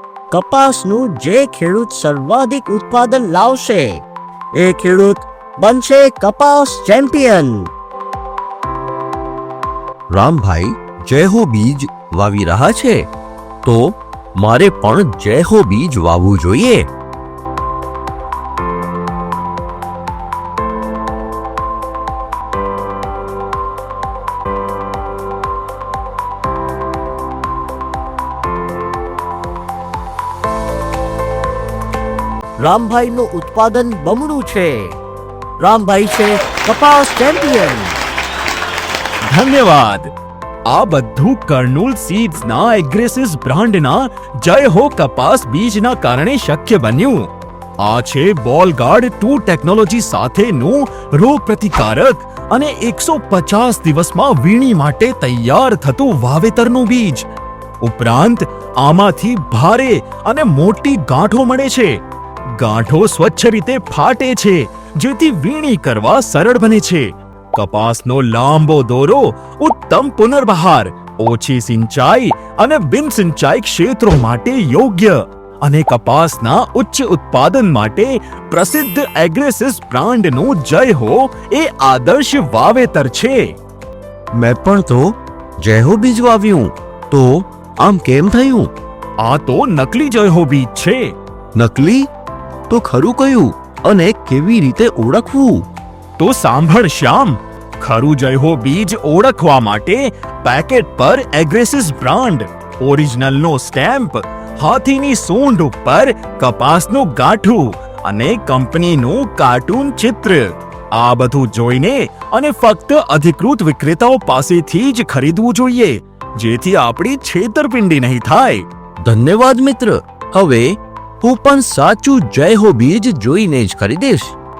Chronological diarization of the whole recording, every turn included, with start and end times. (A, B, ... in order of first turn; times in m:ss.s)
0:00.3-0:04.0 A
0:04.6-0:07.7 A
0:10.1-0:13.0 B
0:13.6-0:16.8 B
0:32.6-0:34.9 A
0:35.6-0:38.0 A
0:39.3-0:40.1 C
0:40.7-0:47.3 C
0:47.8-0:57.3 C
0:57.8-1:02.0 C
1:02.6-1:23.5 C
1:24.4-1:28.7 B
1:29.2-1:31.0 C
1:31.6-1:32.1 B
1:32.7-1:35.6 B
1:36.2-1:58.6 C
1:59.0-2:04.3 B